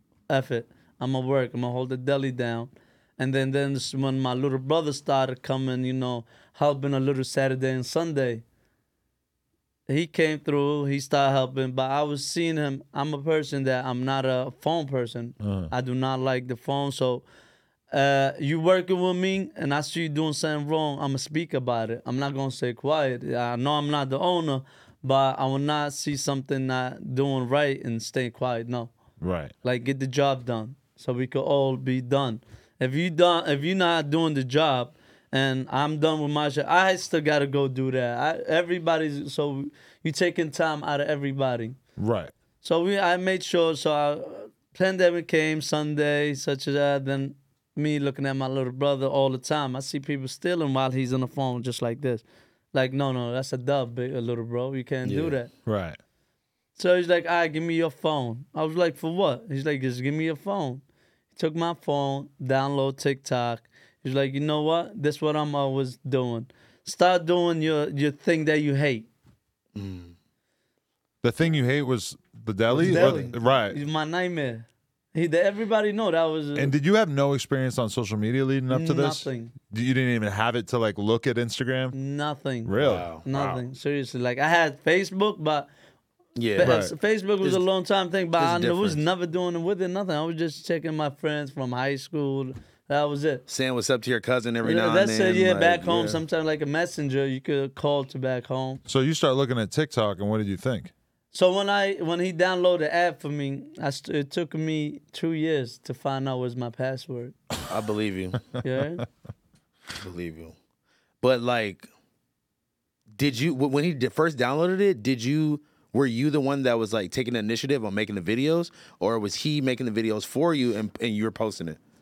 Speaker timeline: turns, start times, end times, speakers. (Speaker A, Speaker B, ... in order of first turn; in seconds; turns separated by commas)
Speaker A: 0.3-8.4, Speaker A: 9.9-17.2, Speaker B: 15.4-15.7, Speaker A: 17.9-28.9, Speaker B: 29.2-29.5, Speaker A: 29.6-41.8, Speaker B: 42.0-42.3, Speaker A: 42.6-55.5, Speaker C: 55.0-55.4, Speaker B: 55.7-56.0, Speaker A: 56.8-60.8, Speaker A: 61.3-69.1, Speaker C: 69.8-70.1, Speaker B: 71.2-73.8, Speaker A: 72.7-76.7, Speaker C: 72.8-73.3, Speaker B: 76.6-82.0, Speaker A: 78.7-79.5, Speaker A: 81.9-82.7, Speaker B: 82.7-83.6, Speaker C: 82.7-83.3, Speaker A: 83.2-85.7, Speaker C: 86.4-86.8, Speaker A: 86.6-93.5, Speaker B: 86.6-86.9, Speaker C: 88.4-89.0, Speaker C: 93.5-96.2, Speaker A: 94.6-98.8, Speaker B: 98.9-100.9, Speaker A: 101.3-107.3, Speaker C: 107.7-108.4, Speaker A: 108.6-109.1, Speaker C: 109.9-110.6, Speaker C: 111.2-111.9, Speaker C: 113.1-121.8